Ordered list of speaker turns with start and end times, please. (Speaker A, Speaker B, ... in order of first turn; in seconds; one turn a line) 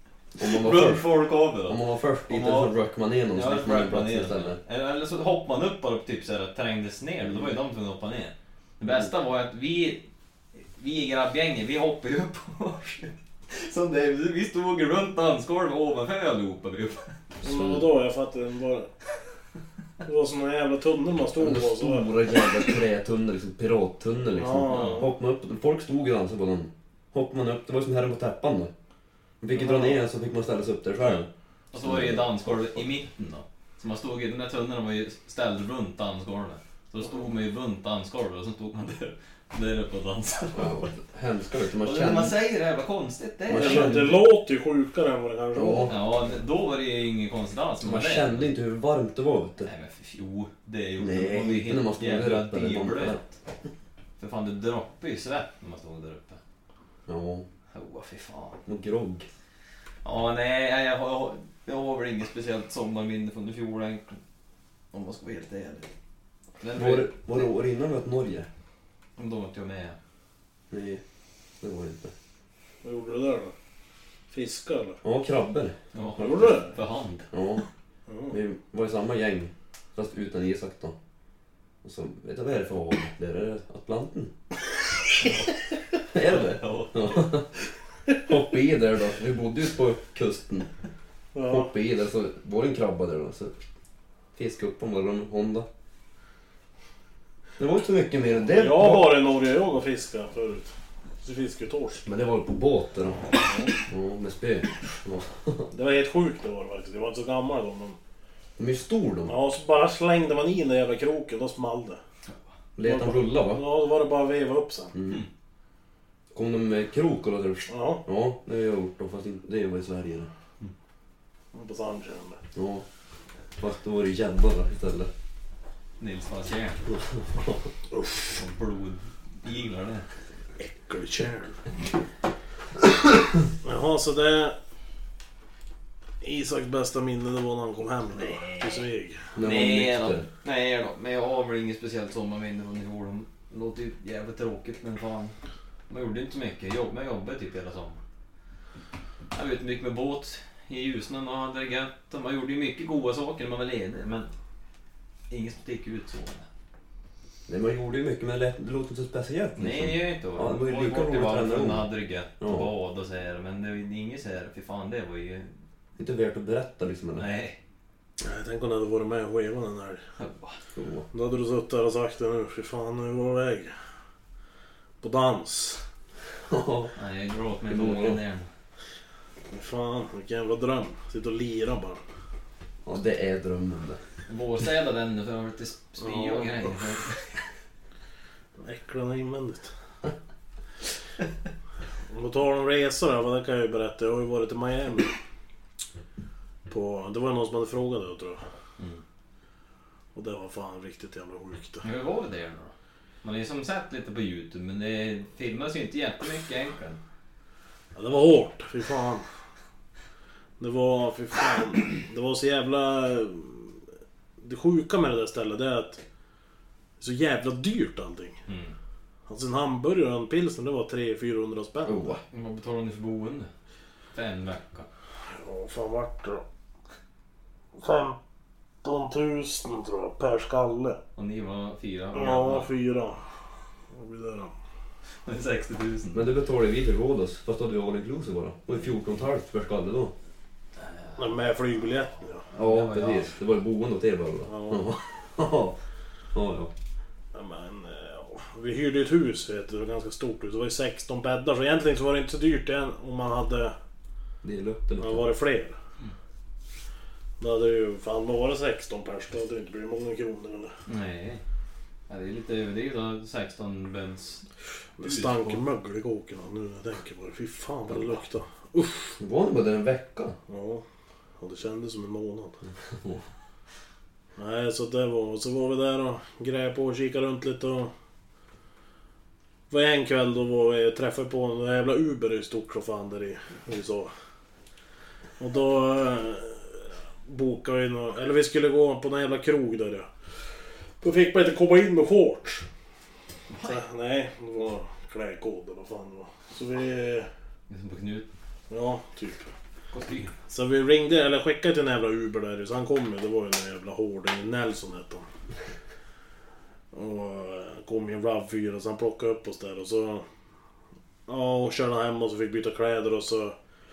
Speaker A: 0.3-4.6
Speaker B: 0.4-2.7
Speaker B: 3.3-10.0
Speaker B: 10.6-17.3
Speaker A: 17.4-17.9
Speaker C: 17.4-18.9
Speaker C: 20.0-22.1
Speaker A: 21.4-28.7
Speaker C: 24.3-25.1
Speaker B: 24.7-25.1
Speaker A: 29.4-32.5
Speaker C: 29.5-29.9
Speaker B: 31.0-40.9
Speaker A: 40.5-42.4
Speaker B: 41.8-44.0
Speaker A: 43.5-44.2
Speaker C: 43.5-45.9
Speaker A: 45.5-45.9
Speaker B: 45.9-48.5
Speaker A: 47.8-49.7
Speaker B: 49.6-53.3
Speaker A: 51.0-53.2
Speaker B: 54.2-56.4
Speaker A: 57.1-57.5
Speaker B: 57.7-58.6
Speaker A: 58.6-59.3
Speaker B: 60.0-64.2
Speaker B: 64.9-65.9
Speaker B: 66.6-67.3
Speaker A: 66.7-68.5
Speaker B: 69.2-70.0
Speaker A: 70.7-71.0
Speaker A: 71.6-72.1
Speaker C: 72.8-73.5
Speaker C: 74.3-75.0
Speaker A: 75.0-76.7
Speaker B: 75.9-77.3
Speaker C: 76.2-76.7
Speaker A: 77.3-77.6
Speaker C: 78.1-78.3
Speaker A: 78.3-81.0
Speaker A: 81.8-84.3
Speaker B: 85.2-87.4
Speaker A: 86.1-87.5
Speaker A: 88.1-90.7
Speaker C: 91.3-91.7
Speaker A: 91.5-93.5
Speaker A: 94.3-95.7
Speaker A: 97.6-99.1
Speaker C: 98.5-102.0
Speaker A: 102.0-103.2
Speaker A: 103.9-105.7
Speaker C: 105.7-108.0
Speaker A: 108.6-109.3
Speaker C: 109.3-112.0
Speaker A: 112.8-113.6
Speaker C: 112.8-114.9
Speaker A: 114.9-115.2
Speaker A: 116.3-120.3
Speaker C: 117.7-118.0
Speaker C: 121.5-122.4
Speaker A: 122.5-122.8
Speaker A: 123.6-125.1
Speaker B: 126.0-126.9
Speaker A: 126.9-127.7
Speaker C: 127.9-128.4
Speaker B: 128.3-130.1
Speaker C: 130.6-131.6
Speaker C: 133.6-134.6
Speaker C: 136.2-139.3
Speaker B: 138.2-138.8
Speaker A: 139.3-140.2
Speaker B: 139.4-145.3
Speaker B: 145.9-148.0
Speaker B: 149.3-154.3
Speaker B: 155.3-156.4
Speaker A: 157.5-161.9
Speaker B: 159.6-165.5
Speaker A: 162.4-162.7
Speaker A: 166.0-167.2
Speaker B: 167.1-167.6
Speaker C: 168.2-170.0
Speaker B: 170.2-170.6
Speaker A: 170.7-171.1
Speaker C: 171.1-173.7
Speaker C: 175.0-175.8
Speaker A: 176.5-176.9
Speaker B: 176.9-178.5
Speaker A: 177.7-178.2
Speaker C: 179.5-182.0
Speaker A: 182.8-184.0
Speaker B: 184.3-187.3
Speaker C: 186.0-186.8
Speaker C: 188.6-189.7
Speaker C: 192.1-195.1
Speaker C: 196.7-198.4
Speaker C: 200.1-201.8
Speaker B: 201.8-207.0
Speaker C: 207.9-209.2
Speaker C: 210.6-213.8
Speaker C: 214.4-216.0
Speaker C: 217.0-218.4
Speaker B: 218.5-218.7
Speaker C: 219.3-222.1
Speaker A: 221.8-222.2
Speaker B: 222.3-223.5
Speaker B: 224.1-224.9
Speaker C: 225.3-226.4
Speaker C: 227.8-228.2
Speaker C: 228.8-231.0
Speaker B: 231.2-232.7
Speaker C: 232.1-233.3
Speaker C: 233.9-234.5
Speaker B: 235.2-236.3
Speaker A: 236.1-240.1
Speaker C: 241.2-242.4
Speaker B: 242.5-243.3
Speaker A: 242.5-245.8
Speaker C: 244.4-244.9
Speaker A: 246.3-246.7
Speaker C: 247.3-253.7
Speaker A: 254.4-255.2
Speaker C: 255.0-255.7
Speaker C: 257.4-260.7
Speaker B: 260.9-261.4
Speaker B: 262.1-264.4
Speaker C: 265.0-269.2
Speaker B: 265.0-265.6
Speaker A: 269.2-270.4
Speaker C: 270.5-270.8
Speaker C: 271.4-272.6
Speaker C: 274.4-277.9
Speaker C: 279.7-284.1
Speaker C: 285.4-290.1
Speaker C: 291.0-292.7
Speaker B: 293.5-293.8
Speaker C: 293.6-297.3
Speaker B: 297.7-298.3
Speaker C: 298.7-299.5
Speaker B: 299.9-300.3
Speaker C: 300.5-305.3
Speaker C: 306.9-310.2
Speaker C: 311.3-313.6